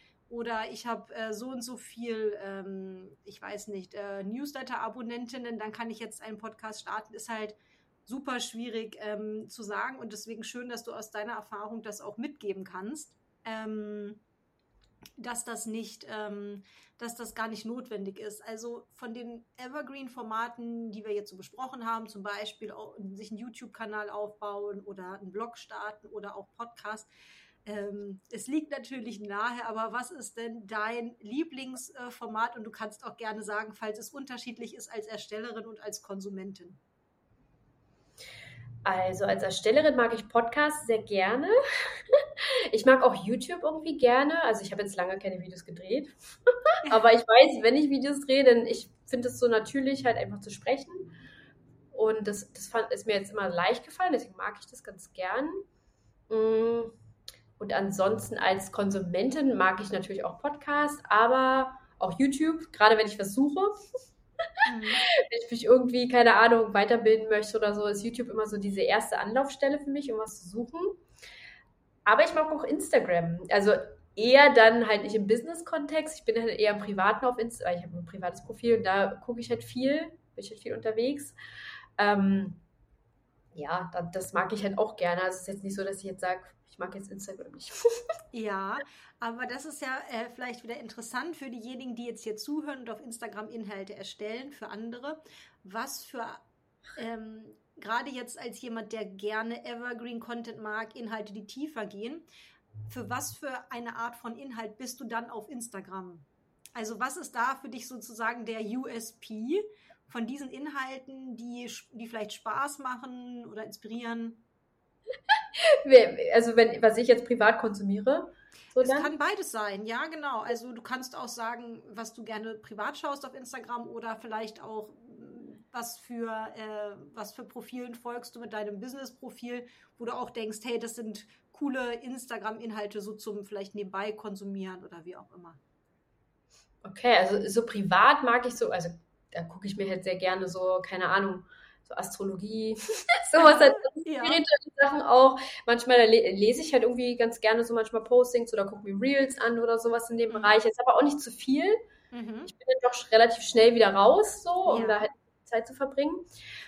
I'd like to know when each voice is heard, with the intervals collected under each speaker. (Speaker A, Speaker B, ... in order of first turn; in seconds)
Speaker A: 0.3-14.2, 15.2-27.1, 27.7-36.8, 46.8-47.1, 64.7-65.0, 88.3-96.4, 97.0-102.2, 102.9-114.4, 118.8-135.6, 143.4-144.4, 150.3-150.6, 152.1-152.5, 154.7-155.1
Speaker B: 38.9-46.1, 46.9-51.1, 51.9-55.6, 56.3-56.9, 57.6-63.7, 65.0-71.0, 72.1-81.4, 82.0-82.6, 83.5-87.8, 115.3-119.1, 136.8-151.8, 152.5-156.3